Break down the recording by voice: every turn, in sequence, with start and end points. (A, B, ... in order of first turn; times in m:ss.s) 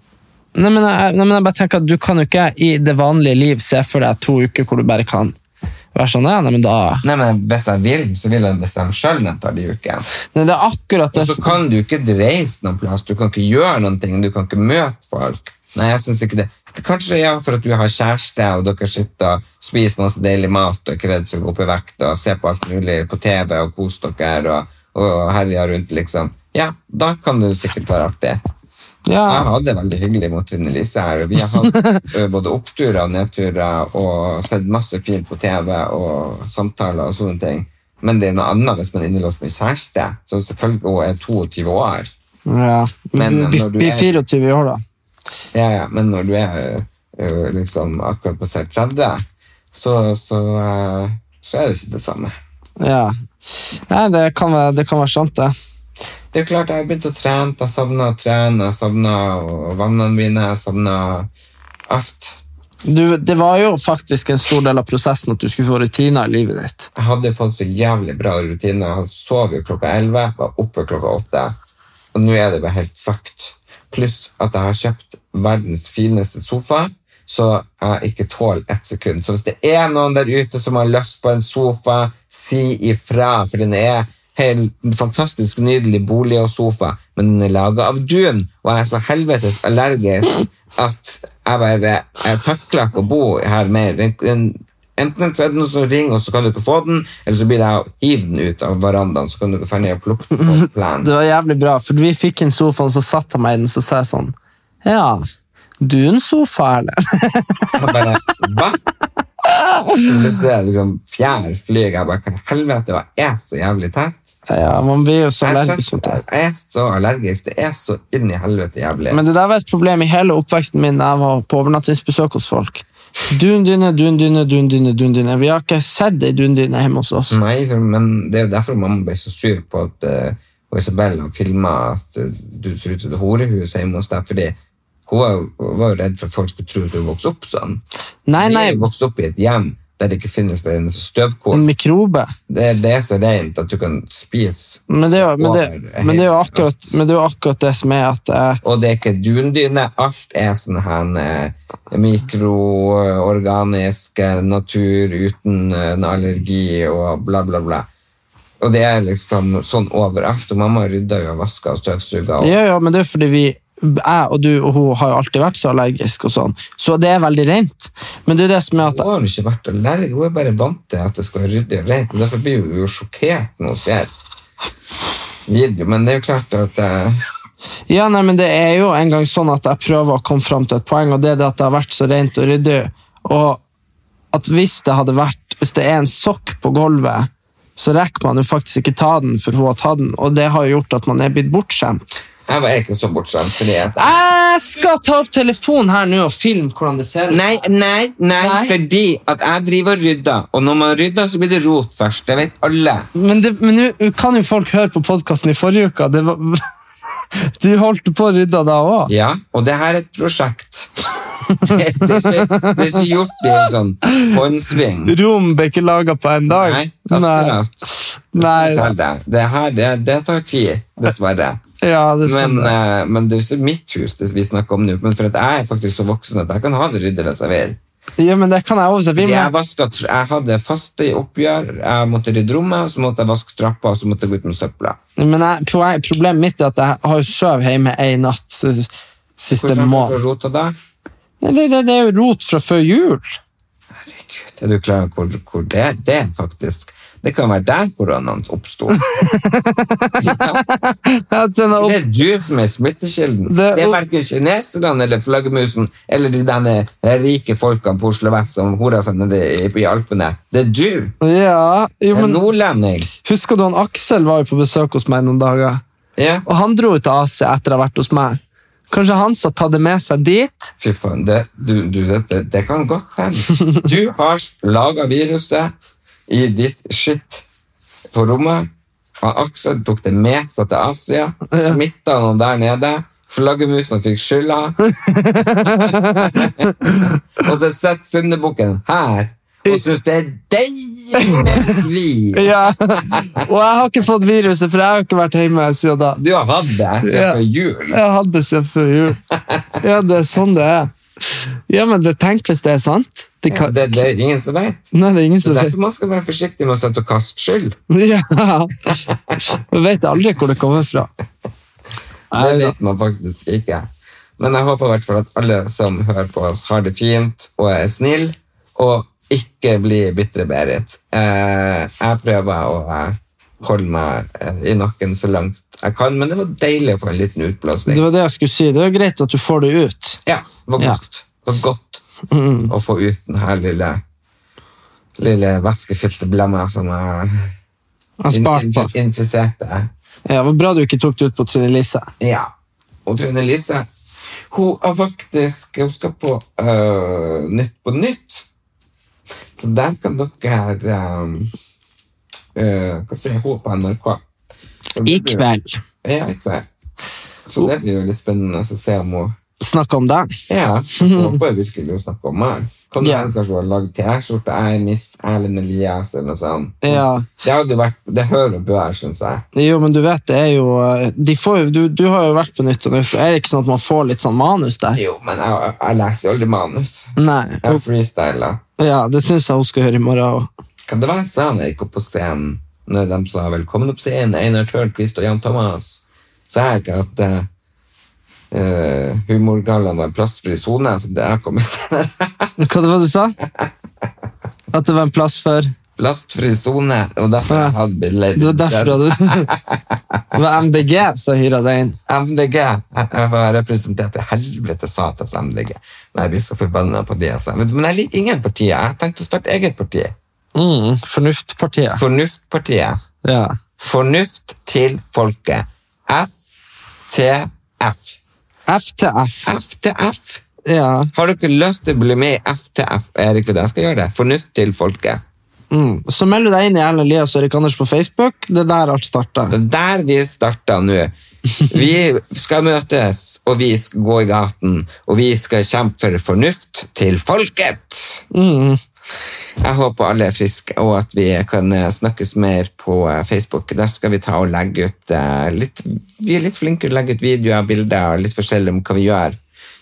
0:00.5-0:05.3 A
0:05.9-0:07.0 A
0:07.0-0:10.0 B
0:10.3-0:11.6 A
0:11.1-0:28.4 B
0:29.0-0:29.5 A
0:29.2-0:42.1 B
0:31.7-0:32.0 A
0:42.5-0:44.8 A
0:43.1-0:44.2 B
0:45.5-0:52.4 B
0:52.8-0:53.1 A
0:53.9-0:55.5 A
0:56.3-1:01.3 B
1:01.9-1:02.4 B
1:02.8-1:06.9 A
1:06.9-1:11.5 B
1:12.1-1:41.1 B
1:40.4-1:45.2 A
1:45.8-1:47.7 A
1:47.7-1:48.8 B
1:49.5-1:50.0 A
1:50.0-1:54.3 B
1:54.5-1:56.2 A
1:55.4-1:59.2 B
1:59.1-2:07.4 A
2:07.3-2:17.8 B
2:18.3-2:18.9 A
2:18.4-2:21.6 B
2:21.5-2:22.3 A
2:22.5-2:26.9 B
2:24.9-2:28.6 A
2:28.6-2:37.9 B
2:38.6-2:42.6 B
2:42.4-2:49.1 A
2:48.8-2:54.1 B
2:55.4-2:57.2 B
2:57.9-3:03.6 A
3:04.3-3:12.1 A
3:12.5-3:14.1 B
3:14.0-3:17.5 A
3:17.3-3:23.1 B
3:18.4-3:18.8 A
3:23.2-3:26.6 A
3:27.3-3:29.1 A
3:29.1-3:30.9 B
3:31.5-3:33.1 A
3:31.6-3:35.2 B
3:34.0-3:34.3 A
3:35.0-3:38.9 A
3:36.5-3:41.6 B
3:41.8-3:42.7 A
3:42.2-3:47.8 B
3:48.2-3:49.5 A
3:49.2-3:55.0 B
3:55.2-4:00.2 A
3:59.6-4:00.8 B
4:01.4-4:03.4 A
4:03.9-4:09.1 B
4:09.1-4:12.0 A
4:10.2-4:10.6 B
4:11.7-4:21.1 B
4:13.5-4:14.0 A
4:21.2-4:22.4 A
4:22.1-4:23.1 B
4:23.2-4:25.8 A
4:26.2-4:26.4 B
4:26.4-4:30.7 A
4:30.8-4:35.7 B
4:36.3-4:37.4 B
4:38.1-4:44.8 B
4:41.5-4:41.8 A
4:44.9-4:47.2 A
4:45.6-4:46.7 B
4:47.4-4:53.4 B
4:51.2-4:51.8 A
4:52.3-4:56.2 A
4:56.2-4:58.0 B
4:57.0-4:57.4 A
4:57.9-4:59.2 A
4:59.3-4:59.8 B
4:59.8-5:04.0 A
5:03.5-5:04.9 B
5:04.9-5:05.7 A
5:05.4-5:07.8 B
5:07.9-5:11.1 A
5:09.1-5:09.3 B
5:12.3-5:12.7 A
5:12.3-5:13.9 B
5:14.4-5:28.0 B
5:27.9-5:30.2 A
5:30.2-5:32.0 B
5:32.3-5:32.7 A
5:32.7-5:34.0 B
5:35.2-5:37.5 B
5:38.2-5:38.9 A
5:38.3-5:39.9 B
5:40.3-5:42.1 A
5:42.2-5:42.5 B
5:43.0-5:43.9 B
5:44.5-5:48.4 B
5:49.6-5:51.5 B
5:52.5-5:54.2 B
5:54.9-5:55.4 B
5:55.0-5:55.8 A
5:56.0-5:56.7 B
5:57.5-5:59.3 B
5:59.6-6:00.3 A
6:00.5-6:09.4 B
6:01.0-6:01.4 A
6:03.0-6:03.3 A
6:06.8-6:07.3 A
6:09.5-6:15.0 A
6:14.9-6:18.6 B
6:17.2-6:17.8 A
6:18.8-6:20.5 A
6:20.8-6:27.5 B
6:28.5-6:32.5 B
6:32.6-6:33.4 A
6:34.7-6:35.7 A
6:36.0-6:40.4 B
6:37.5-6:37.8 A
6:38.4-6:39.5 A
6:40.3-6:42.0 A
6:42.1-6:50.2 B
6:50.5-6:52.0 A
6:51.9-6:53.0 B
6:53.2-6:53.6 A
6:53.8-6:56.4 B
6:57.1-6:58.2 B
6:58.7-6:59.5 A
6:59.4-7:00.4 B
7:00.6-7:01.1 A
7:01.1-7:05.2 B
7:05.7-7:09.5 A
7:09.5-7:11.1 B
7:11.7-7:18.2 B
7:18.3-7:18.8 A
7:19.6-7:29.4 B